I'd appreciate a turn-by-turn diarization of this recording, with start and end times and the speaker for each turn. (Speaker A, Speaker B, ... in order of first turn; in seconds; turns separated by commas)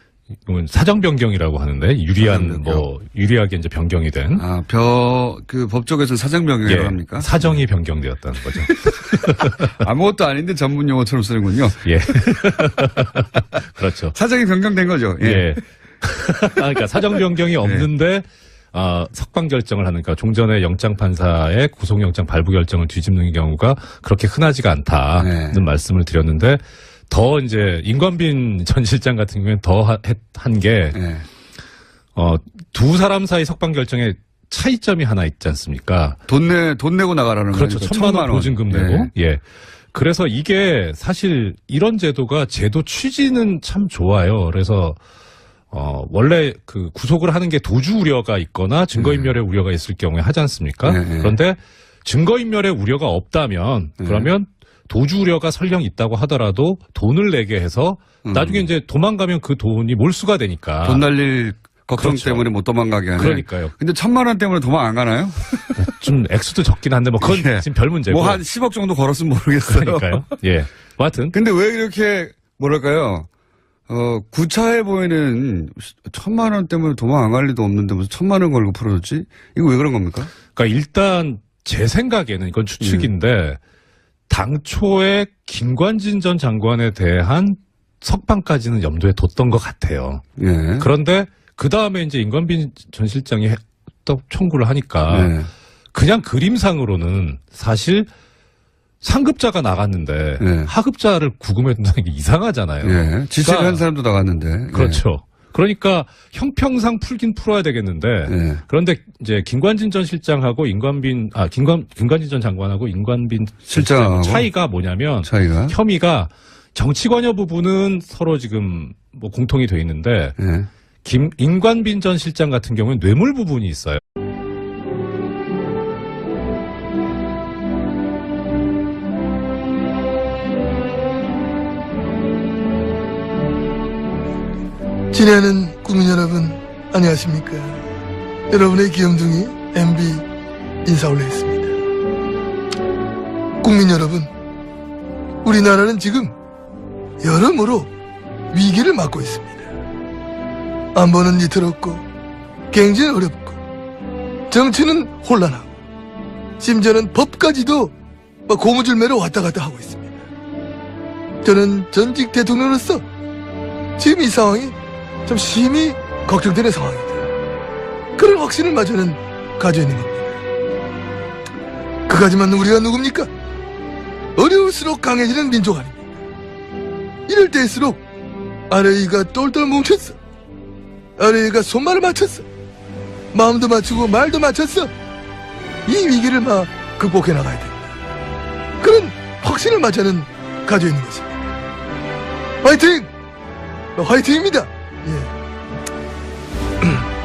Speaker A: 0.5-4.4, Speaker B: 2.2-2.9, Speaker B: 4.3-7.6, Speaker A: 6.7-9.8, Speaker B: 8.6-12.2, Speaker A: 11.8-14.2, Speaker B: 14.1-15.5, Speaker A: 15.2-31.0, Speaker B: 17.6-17.9, Speaker B: 25.2-25.6, Speaker B: 30.9-31.2, Speaker A: 32.1-36.2, Speaker B: 36.3-39.1, Speaker A: 37.5-45.0, Speaker A: 45.7-61.0, Speaker B: 48.9-49.4, Speaker B: 50.8-51.4, Speaker B: 54.0-54.3, Speaker B: 58.2-58.7, Speaker B: 60.8-65.9, Speaker A: 62.0-62.5, Speaker A: 63.2-63.7, Speaker A: 65.8-68.4, Speaker B: 67.2-70.2, Speaker A: 69.7-71.3, Speaker B: 71.3-73.3, Speaker B: 73.9-80.3, Speaker A: 80.5-83.6, Speaker B: 82.8-83.1, Speaker A: 84.3-90.2, Speaker B: 90.4-90.9, Speaker A: 90.8-95.3, Speaker B: 95.1-95.5, Speaker A: 95.9-98.1, Speaker A: 99.0-103.8, Speaker B: 100.4-100.7, Speaker B: 102.8-105.0, Speaker A: 104.7-120.4, Speaker B: 108.3-108.6, Speaker B: 113.7-114.5, Speaker B: 115.2-115.8, Speaker B: 120.4-120.7, Speaker A: 121.0-124.0, Speaker C: 135.1-137.8, Speaker C: 138.5-140.2, Speaker C: 140.8-141.7, Speaker C: 143.6-144.3, Speaker C: 145.4-146.3, Speaker C: 147.2-147.9, Speaker C: 148.5-149.7, Speaker C: 150.9-152.0, Speaker C: 152.7-153.6, Speaker C: 154.5-155.7, Speaker C: 156.6-157.9, Speaker C: 158.5-160.2, Speaker C: 161.4-163.0, Speaker C: 164.0-167.3, Speaker C: 168.2-170.3, Speaker C: 172.1-173.3, Speaker C: 174.3-176.1, Speaker C: 177.3-178.0, Speaker C: 178.7-180.2, Speaker C: 181.2-182.4, Speaker C: 183.3-184.9, Speaker C: 185.8-187.9, Speaker C: 188.8-191.4, Speaker C: 192.6-193.1, Speaker C: 193.9-195.3